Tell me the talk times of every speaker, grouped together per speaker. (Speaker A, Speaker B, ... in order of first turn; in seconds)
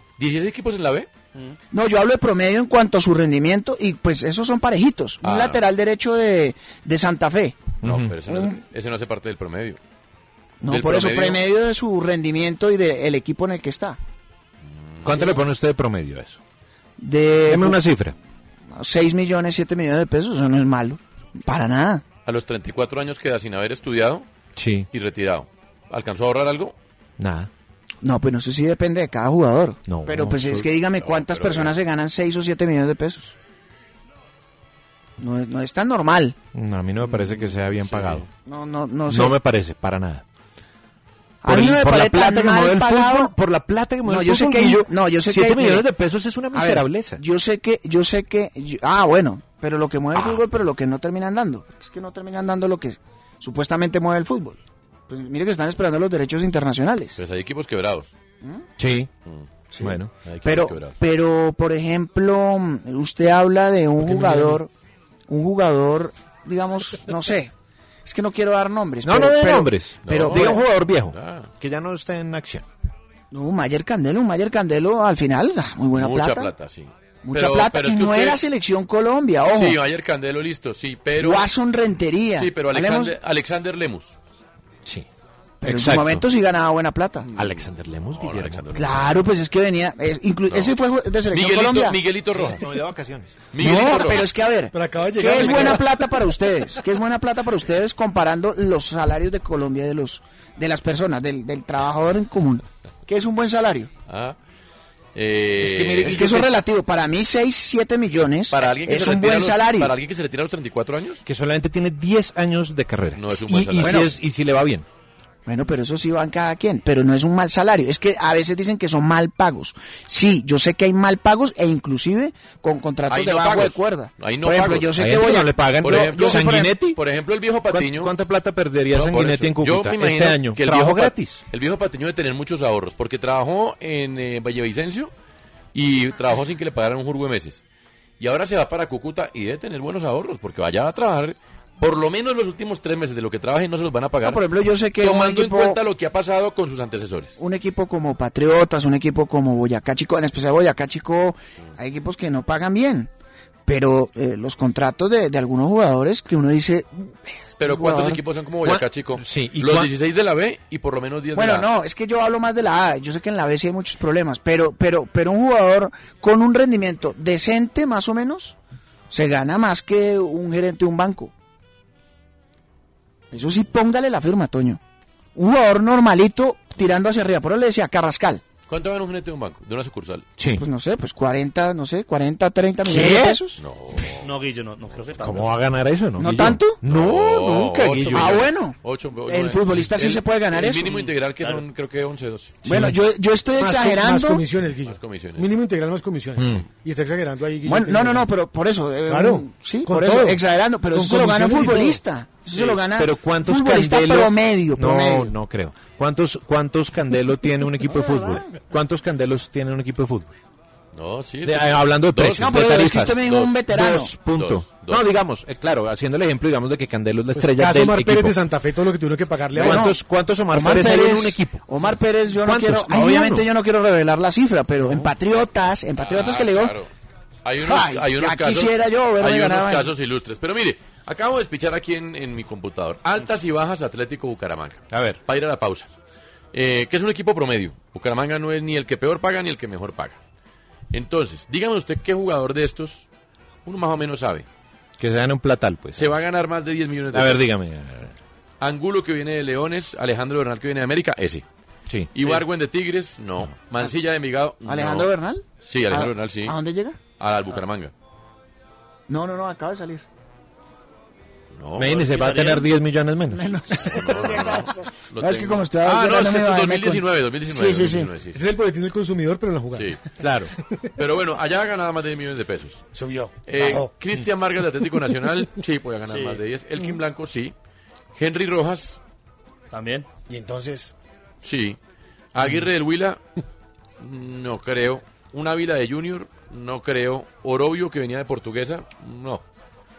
Speaker A: 0.2-1.1, 5.2-5.6, 7.8-9.8, 10.7-11.4, 14.7-15.4, 22.3-24.3, 24.9-26.8, 31.0-31.8, 37.0-38.3, 57.2-58.1, 60.2-61.0, 64.0-64.6, 70.0-71.5, 75.9-78.4, 79.5-81.5, 82.4-84.2, 88.1-89.3, 90.5-90.8, 91.3-92.7, 93.5-94.3, 104.1-104.4, 105.2-106.4, 108.5-111.2, 113.2-114.1, 123.1-124.9, 125.8-128.2, 128.9-135.1, 135.7-137.6, 138.2-147.3, 157.6-161.7, 178.7-180.3, 183.6-184.3, 186.9-192.6, 194.9-195.5, 202.5-202.8, 210.9-213.6, 214.3-215.1, 226.0-226.9, 227.4-235.9, 236.5-240.2, 240.9-243.1, 243.7-244.5, 246.0-247.5, 248.6-251.4, 252.2-255.1, 255.6-256.6, 257.2-257.9, 261.5-262.3, 263.9-268.4, 269.7-270.0, 271.0-272.8, 273.5-277.5, 278.1-279.0, 281.4-281.8, 282.3-283.2, 284.0-289.4
Speaker B: 1.7-7.7, 8.3-8.6, 10.6-14.0, 17.0-17.8, 18.7-22.0, 28.0-33.4, 35.2-36.4, 38.5-39.4, 41.4-43.3, 44.1-45.9, 46.5-57.2, 60.4-64.7, 65.3-67.5, 68.0-70.6, 73.3-76.5, 77.2-79.8, 81.2-83.2, 85.6-87.3, 88.8-92.0, 93.6-103.9, 106.0-109.9, 113.8-114.1, 115.5-126.7, 144.2-145.8, 147.4-153.1, 153.7-158.2, 161.3-168.6, 169.1-171.3, 173.3-174.8, 175.3-178.4, 180.6-183.6, 186.2-186.8, 188.1-190.9, 192.7-194.4, 197.7-205.3, 208.0-208.4, 212.4-214.1, 219.6-220.0, 220.5-226.8, 227.6-229.9, 254.7-257.0, 259.1-260.0, 263.3-264.7, 265.2-268.1
Speaker C: 7.8-8.2, 15.0-16.4, 17.5-18.1, 24.6-24.9, 27.2-27.5, 29.9-30.7, 36.5-38.3, 39.1-40.2, 41.4-47.2, 58.8-59.1, 59.8-60.1, 69.0-72.7, 85.6-86.3, 87.3-88.7, 92.3-93.4, 105.6-106.5, 111.2-114.9, 125.0-127.0, 127.7-131.4, 158.6-159.9, 180.4-180.7, 182.8-183.4, 185.2-188.4, 192.7-193.0, 196.4-196.6, 202.9-210.4, 211.4-218.4, 219.5-221.7, 222.4-223.5, 224.8-225.1, 234.9-235.2, 245.0-246.2, 247.1-248.2, 261.8-264.1, 270.2-270.5
Speaker D: 94.7-95.9, 193.6-198.3, 199.1-200.4, 200.9-202.0, 217.3-219.9, 268.3-270.0, 272.9-273.9, 280.3-280.9
Speaker E: 184.2-185.6, 190.9-191.7, 261.8-262.7, 276.1-276.4, 279.7-280.1